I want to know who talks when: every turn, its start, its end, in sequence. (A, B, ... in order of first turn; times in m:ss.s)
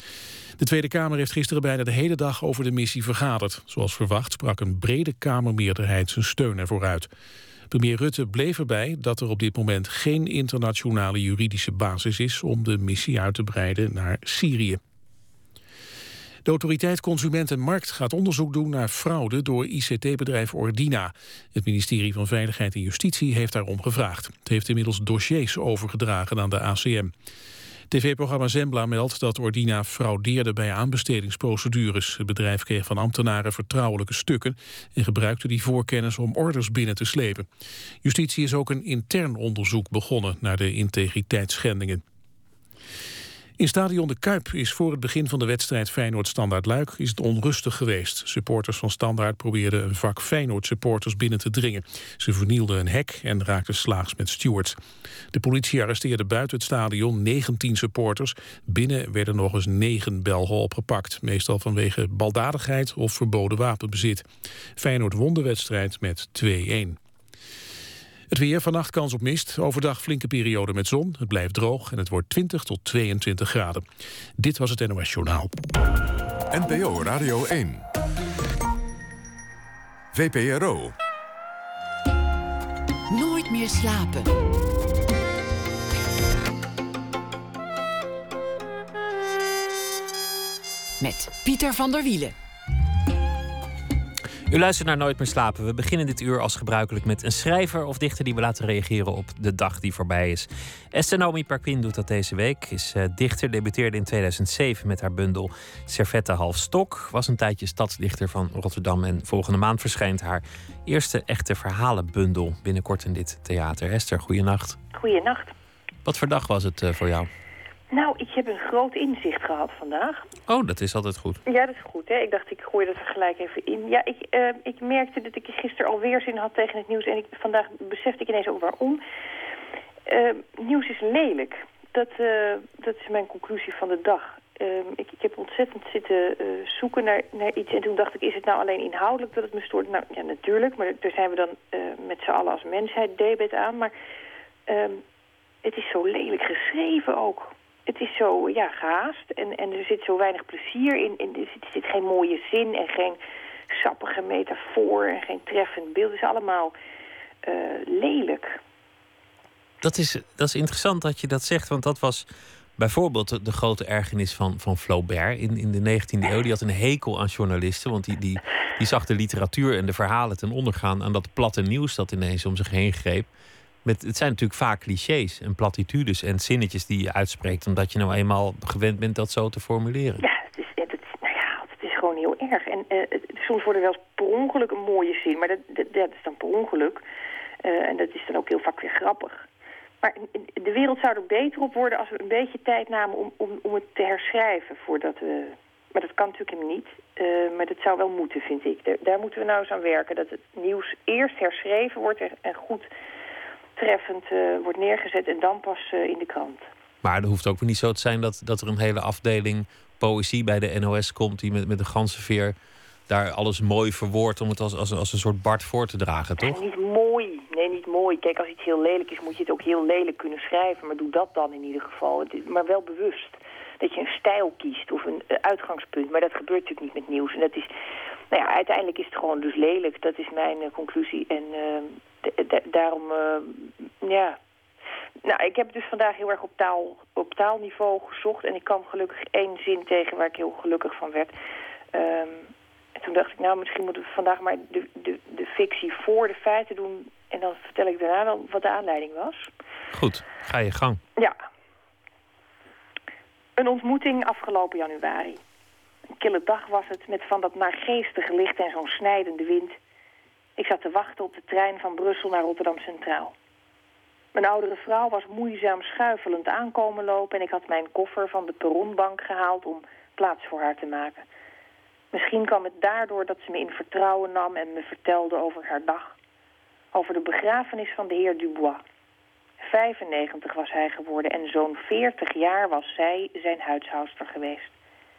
0:00.6-0:07.1 A
0:07.7-0:14.8 A
0:16.4-0:27.1 A
0:27.9-0:37.5 A
0:38.0-0:42.0 A
0:43.6-0:54.8 A
0:55.3-1:07.0 A
1:08.3-1:13.8 A
1:14.4-1:15.5 A
1:16.5-1:17.8 B
1:20.1-1:20.9 B
1:23.1-1:24.4 C
1:31.0-1:32.3 C
1:34.5-1:54.8 D
1:54.9-1:55.5 E
1:56.0-1:57.3 D
1:57.9-2:00.2 E
2:00.5-2:01.4 D
2:01.4-2:09.0 E
2:10.1-2:23.9 E
2:24.7-2:25.0 E
2:25.6-2:33.2 E
2:33.7-2:36.7 E
2:37.4-2:38.6 E
2:39.8-2:42.2 D
2:42.8-2:53.3 D
2:53.8-3:00.2 D
3:00.2-3:07.0 E
3:07.6-3:09.4 E
3:10.0-3:22.9 E
3:23.8-3:26.7 E
3:27.0-3:32.6 D
3:33.1-3:36.6 D
3:36.4-3:47.7 E
3:48.3-3:54.4 E
3:55.2-4:01.3 E
4:01.9-4:09.5 E
4:09.9-4:11.0 D
4:13.6-4:15.4 E
4:16.2-4:19.8 E
4:20.6-4:23.3 E
4:24.3-4:31.2 E
4:32.1-4:36.1 E
4:36.9-4:38.8 E
4:39.6-4:44.7 E